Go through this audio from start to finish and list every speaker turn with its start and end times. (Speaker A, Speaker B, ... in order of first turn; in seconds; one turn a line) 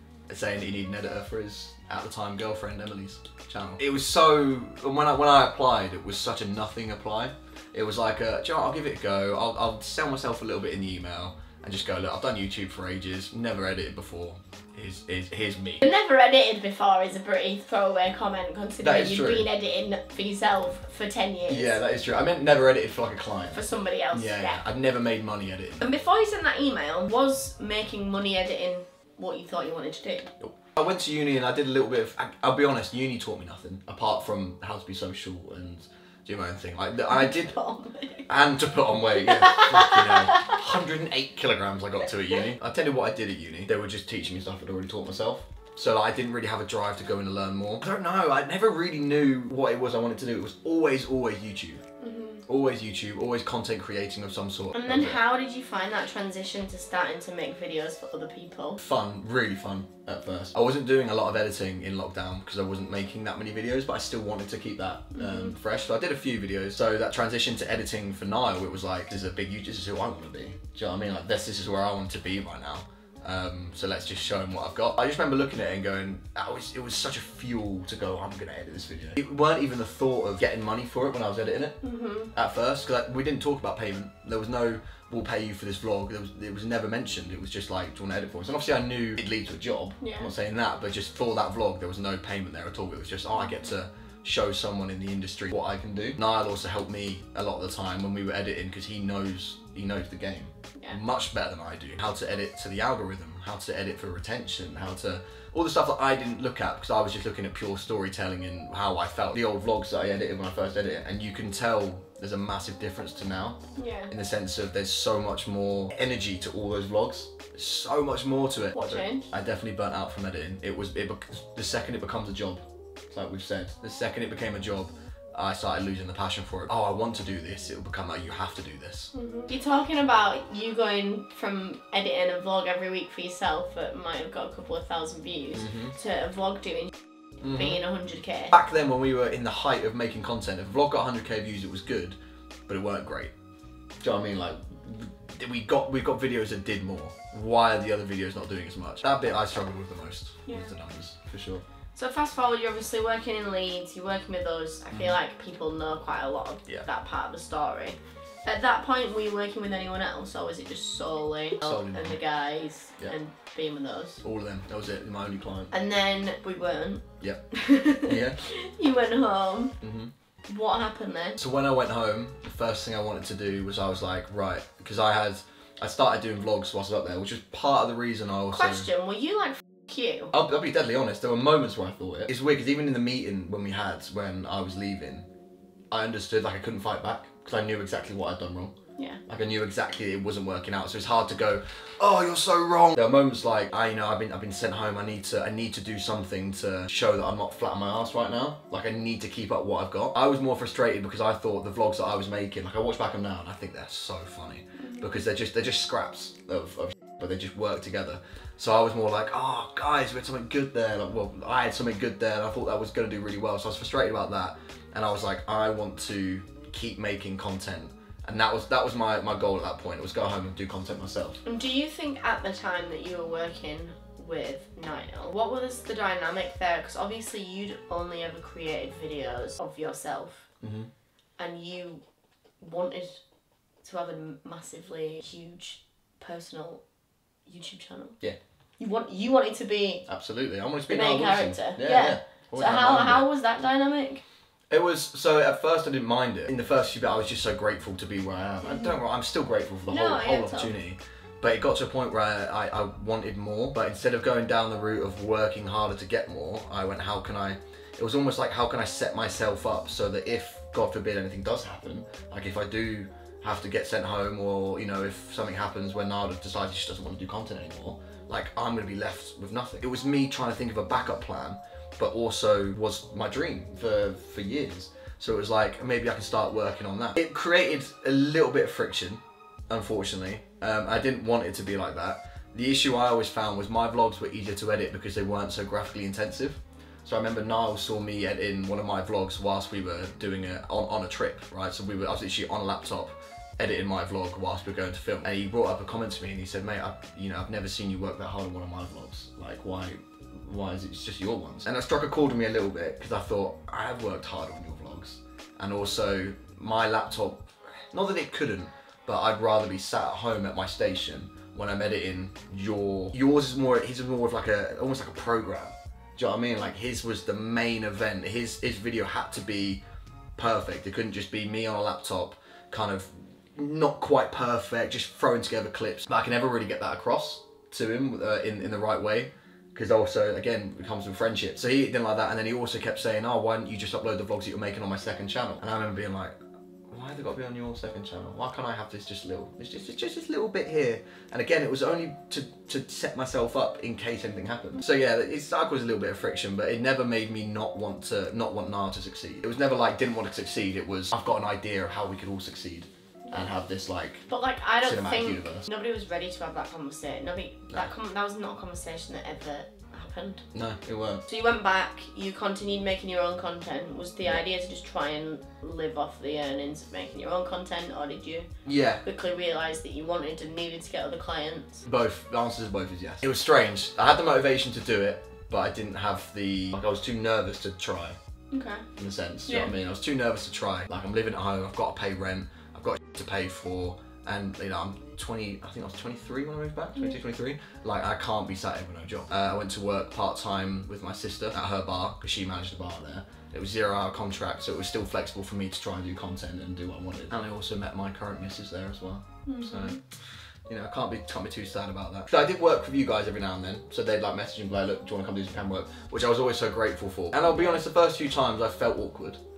Speaker A: 0.3-15.8
Speaker B: 15.8-21.8
Speaker A: 18.8-19.5
Speaker A: 21.5-25.9
Speaker B: 23.5-24.6
Speaker B: 25.8-30.3
Speaker A: 30.4-37.5
Speaker B: 37.1-38.3
Speaker A: 38.3-51.8
Speaker B: 39.1-40.5
Speaker B: 52.0-52.4
Speaker A: 52.5-55.2
Speaker B: 54.7-58.8
Speaker A: 58.8-81.8
Speaker B: 65.2-65.5
Speaker B: 81.8-82.3
Speaker A: 82.3-129.1
Speaker B: 90.0-90.3
Speaker B: 113.8-114.1
Speaker B: 118.7-119.2
Speaker B: 129.1-138.5
Speaker A: 135.5-135.9
Speaker A: 137.4-137.8
Speaker A: 138.5-142.2
Speaker A: 142.7-143.3
Speaker A: 144.0-151.6
Speaker B: 150.5-150.7
Speaker B: 151.9-164.2
Speaker A: 161.6-162.2
Speaker A: 164.2-165.7
Speaker B: 165.7-169.8
Speaker A: 167.2-168.4
Speaker A: 169.8-170.1
Speaker B: 170.5-171.4
Speaker A: 171.4-178.9
Speaker B: 178.5-180.3
Speaker A: 180.3-185.2
Speaker A: 185.9-188.7
Speaker A: 189.2-221.4
Speaker B: 204.8-205.1
Speaker B: 221.4-230.5
Speaker A: 230.6-230.9
Speaker B: 231.4-232.0
Speaker B: 232.6-233.2
Speaker B: 233.8-236.8
Speaker B: 237.4-238.2
Speaker B: 238.8-240.0
Speaker A: 240.1-243.3
Speaker B: 240.9-244.2
Speaker A: 244.7-319.8
Speaker B: 248.6-248.9
Speaker B: 249.9-250.7
Speaker A: 320.4-336.4
Speaker A: 336.9-354.3
Speaker B: 354.3-360.4
Speaker A: 354.8-355.6
Speaker A: 360.5-361.2
Speaker B: 361.2-368.5
Speaker A: 368.6-369.0
Speaker B: 369.0-371.8
Speaker A: 371.8-378.2
Speaker B: 378.5-378.9
Speaker A: 379.0-400.0
Speaker B: 379.5-379.7
Speaker B: 399.4-400.0
Speaker A: 400.7-409.4
Speaker B: 407.5-407.8